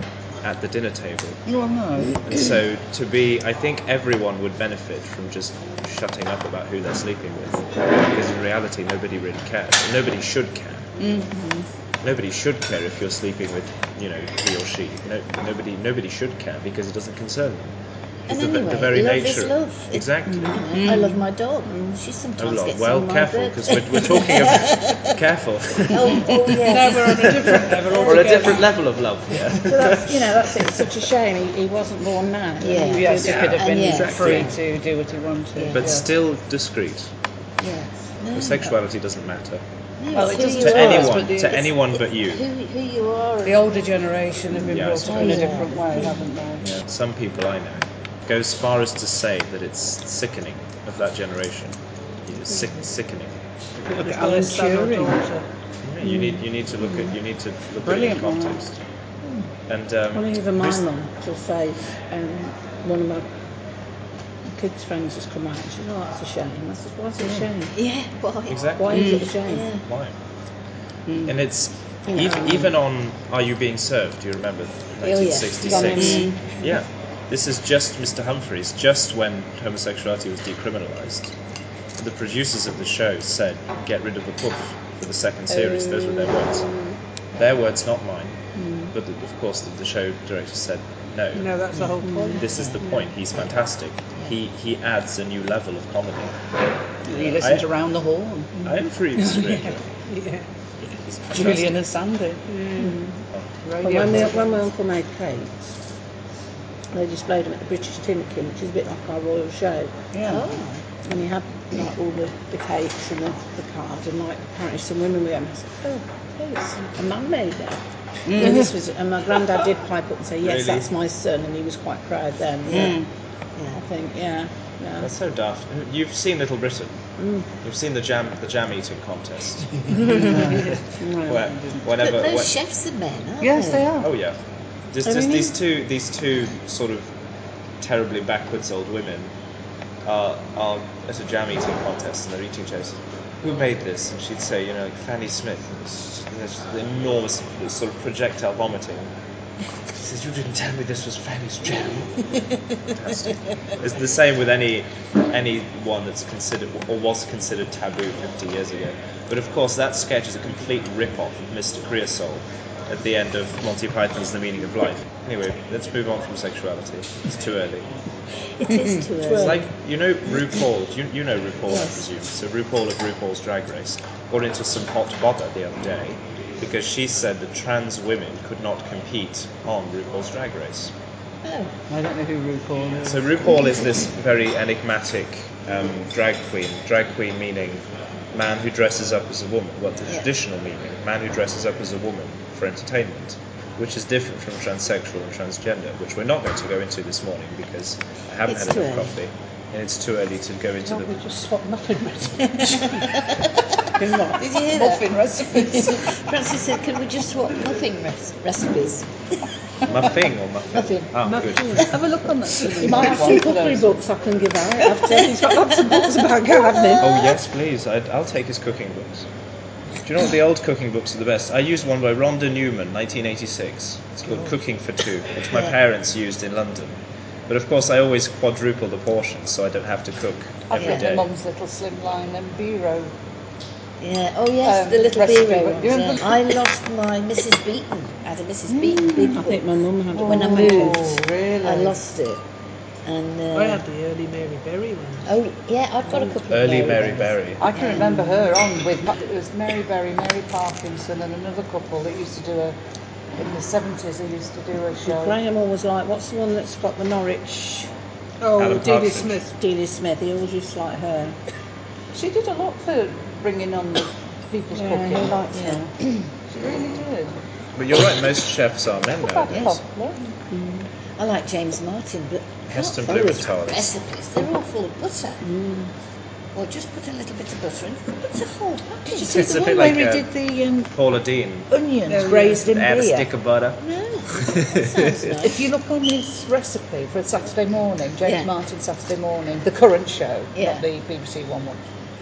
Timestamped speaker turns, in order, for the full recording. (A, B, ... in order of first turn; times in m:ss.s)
0:00.4-0:01.4 A
0:01.5-0:02.5 B
0:02.2-0:10.9 A
0:11.0-0:11.4 B
0:12.0-0:17.8 A
0:18.3-0:20.6 A
0:18.3-0:25.1 C
0:20.5-0:21.2 B
0:21.7-0:22.0 D
0:22.4-0:30.9 A
0:25.9-0:27.3 C
0:26.7-0:28.6 E
0:26.7-0:28.6 B
0:27.9-0:28.4 C
0:29.6-0:33.6 D
0:32.6-0:34.6 C
0:32.8-0:36.1 B
0:33.3-0:33.5 A
0:34.2-0:34.5 A
0:35.6-0:36.0 C
0:35.7-0:37.1 A
0:37.6-0:38.7 C
0:38.3-0:39.6 A
0:40.0-0:43.7 C
0:40.1-0:41.8 B
0:40.4-0:42.4 A
0:43.4-0:46.7 B
0:44.7-0:45.5 A
0:45.0-0:46.2 C
0:45.2-0:45.6 D
0:46.6-0:53.4 A
0:53.8-0:55.4 E
0:54.0-0:55.2 B
0:55.8-0:58.8 A
0:56.0-0:56.4 D
0:57.8-0:58.6 B
0:59.7-1:00.8 A
1:00.1-1:03.3 D
1:04.5-1:07.7 D
1:07.2-1:07.5 B
1:07.7-1:08.8 C
1:08.5-1:09.0 A
1:08.8-1:09.7 D
1:08.9-1:09.3 B
1:09.3-1:09.9 C
1:09.8-1:10.2 A
1:11.1-1:11.3 B
1:11.2-1:21.3 A
1:12.1-1:12.4 D
1:15.0-1:16.2 C
1:15.6-1:16.4 D
1:15.9-1:16.6 B
1:22.0-1:26.7 A
1:27.4-1:28.4 A
1:28.6-1:28.9 D
1:28.9-1:31.6 A
1:31.3-1:32.9 E
1:32.0-1:32.4 D
1:32.3-1:36.4 A
1:37.1-1:38.7 B
1:37.1-1:37.7 A
1:38.6-1:39.8 A
1:39.2-1:39.5 B
1:39.6-1:40.4 E
1:41.0-1:41.8 A
1:41.3-1:42.9 B
1:42.5-1:42.8 E
1:42.8-1:43.2 D
1:43.6-1:44.4 B
1:43.8-1:45.7 D
1:46.9-1:49.9 D
1:50.1-1:50.6 B
1:50.2-1:50.8 C
1:51.0-2:03.0 D
1:58.3-1:58.7 B
2:00.4-2:00.9 A
2:02.7-2:03.1 B
2:03.7-2:05.1 D
2:05.0-2:07.0 A
2:07.2-2:07.5 D
2:07.6-2:12.6 A
2:10.1-2:11.9 B
2:11.0-2:11.3 D
2:12.0-2:13.9 C
2:13.4-2:14.1 B
2:14.0-2:14.4 A
2:14.9-2:17.2 A
2:17.8-2:19.3 A
2:20.0-2:29.1 A
2:29.9-2:32.2 A
2:32.9-2:47.9 A
2:48.6-2:49.7 C
2:49.2-2:49.6 D
2:49.3-3:00.9 A
2:51.7-2:52.1 C
3:01.4-3:01.7 C
3:01.9-3:03.4 B
3:03.0-3:21.2 A
3:18.5-3:19.1 C
3:20.8-3:23.2 E
3:24.0-3:24.4 D
3:24.4-3:29.1 C
3:24.4-3:26.2 B
3:29.9-3:32.0 A
3:30.8-3:31.1 D
3:31.2-3:32.0 E
3:31.8-3:34.0 B
3:32.8-3:37.1 D
3:35.2-3:36.3 E
3:35.9-3:37.4 C
3:37.0-3:39.3 A
3:40.0-3:51.3 A
3:44.3-3:44.6 B
3:45.5-3:45.8 C
3:50.7-3:53.1 B
3:50.8-3:51.1 C
3:54.0-3:59.6 C
3:54.6-3:56.6 B
3:58.7-3:59.5 B
3:59.2-4:01.2 D
4:00.1-4:02.0 B
4:00.2-4:02.4 C
4:03.0-4:03.8 C
4:03.5-4:05.3 E
4:05.2-4:08.3 C
4:06.5-4:07.6 A
4:07.6-4:12.8 B
4:13.4-4:15.4 B
4:15.0-4:17.9 D
4:18.4-4:19.5 E
4:18.6-4:19.4 A
4:19.5-4:21.4 D
4:22.1-4:25.9 B
4:24.7-4:25.8 D
4:25.5-4:26.3 C
4:26.5-4:27.4 B
4:27.8-4:29.8 A
4:29.1-4:30.2 B
4:29.5-4:29.8 C
4:30.5-4:30.9 D
4:31.2-4:35.4 C
4:32.7-4:34.0 A
4:35.4-4:35.9 D
4:36.5-4:39.6 C
4:39.1-4:40.9 B
4:39.3-4:40.4 A
4:40.9-4:41.7 A
4:41.7-4:43.3 B
4:42.1-4:42.6 E
4:42.5-4:43.8 A
4:43.8-4:45.6 C
4:44.4-4:45.3 A
4:45.4-4:51.8 B
4:48.2-4:48.5 C
4:50.6-4:50.9 C